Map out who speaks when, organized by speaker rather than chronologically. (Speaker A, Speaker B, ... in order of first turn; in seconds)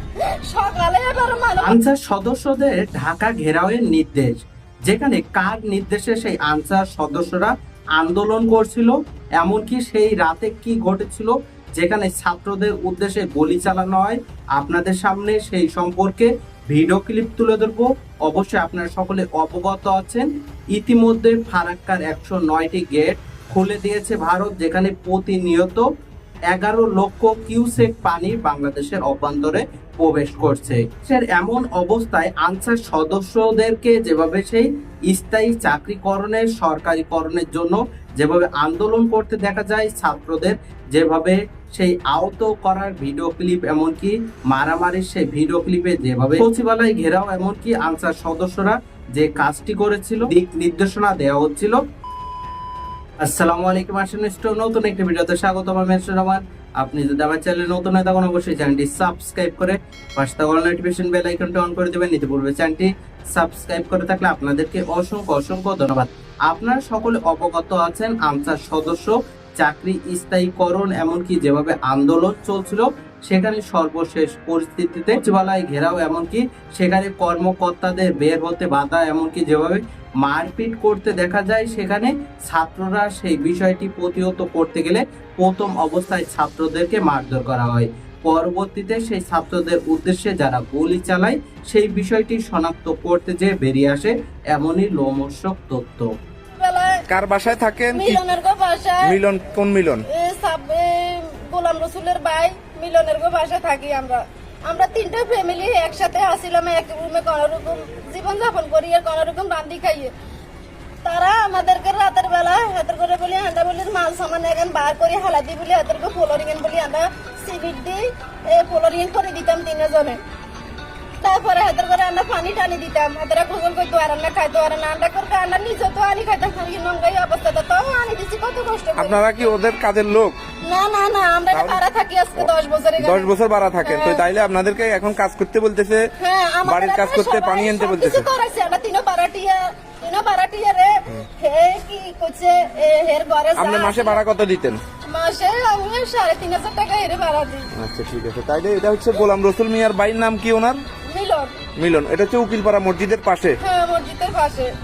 Speaker A: 0.3-1.8, 96.5-97.1, 97.9-99.2, 100.1-110.1, 111.0-120.2, 121.2-129.2, 130.7-134.2, 136.2-144.2, 145.1-147.7, 151.0-151.6, 153.6-154.7
Speaker B: 1.6-25.9, 26.5-51.8, 53.2-96.1
Speaker C: 97.1-98.2, 99.0-100.1, 129.0-130.4, 131.5-131.8, 133.0-136.1, 136.6-138.3, 143.6-144.8, 147.7-150.8, 151.8-153.6